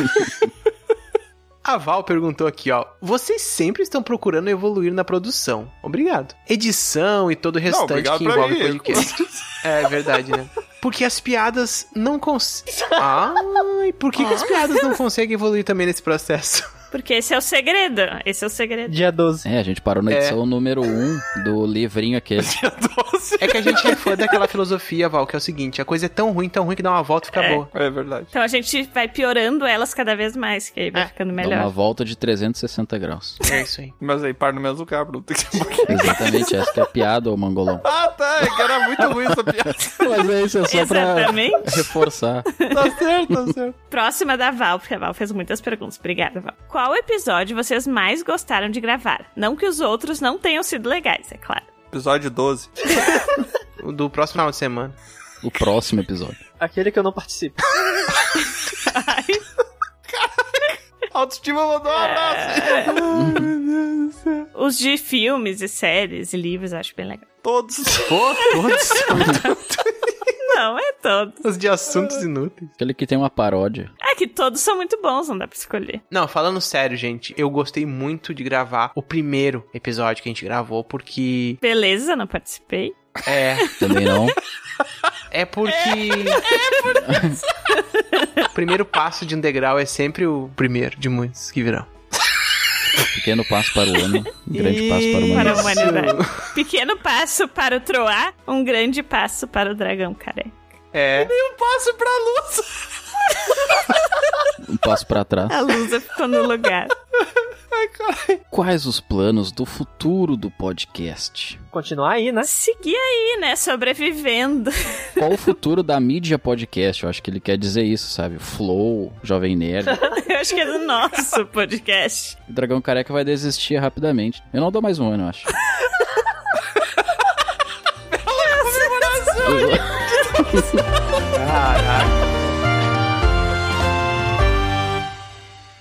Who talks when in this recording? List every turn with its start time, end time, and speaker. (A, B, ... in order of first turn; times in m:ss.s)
0:01.6-0:16.7 A
0:07.7-0:09.4 B
0:16.9-0:19.0 C
0:18.9-0:19.5 D
0:19.4-0:22.5 E
0:20.1-0:20.4 A
0:22.4-0:24.2 B
0:23.4-0:27.7 A
0:27.4-0:27.6 C
0:27.7-0:28.3 B
0:28.3-0:31.7 C
0:31.4-0:33.4 E
0:33.4-0:33.9 A
0:34.0-0:36.2 B
0:35.9-0:37.8 E
0:37.8-0:40.1 B
0:39.5-0:42.5 E
0:40.7-0:41.8 C
0:42.7-0:43.8 B
0:43.9-0:51.6 C
0:51.9-0:52.7 B
0:53.8-0:55.0 A
0:55.4-0:56.4 E
0:56.6-0:57.6 D
0:58.4-0:59.4 C
1:00.1-1:04.4 B
1:02.0-1:03.0 C
1:03.1-1:03.5 E
1:04.5-1:07.2 C
1:07.4-1:08.2 B
1:08.0-1:09.8 A
1:08.4-1:09.5 C
1:10.4-1:11.5 C
1:11.4-1:12.7 A
1:12.8-1:13.9 E
1:14.0-1:16.0 C
1:16.1-1:21.6 A
1:21.6-1:23.0 C
1:23.2-1:23.7 A
1:23.8-1:24.4 E
1:25.3-1:26.4 A
1:26.1-1:26.7 C
1:27.0-1:27.4 E
1:27.7-1:28.4 C
1:28.5-1:31.9 A
1:33.1-1:35.8 E
1:34.5-1:36.5 A
1:35.3-1:40.5 C
1:40.9-1:41.3 A
1:41.2-1:42.7 B
1:44.6-1:45.6 E
1:45.5-1:46.9 C
1:47.7-1:48.4 B
1:48.5-1:51.6 E
1:51.7-1:52.5 D
1:52.4-1:55.1 C
1:55.2-2:00.0 E
2:00.1-2:02.4 C
2:02.5-2:05.5 E
2:08.1-2:09.8 B
2:09.4-2:09.9 E
2:11.3-2:12.3 A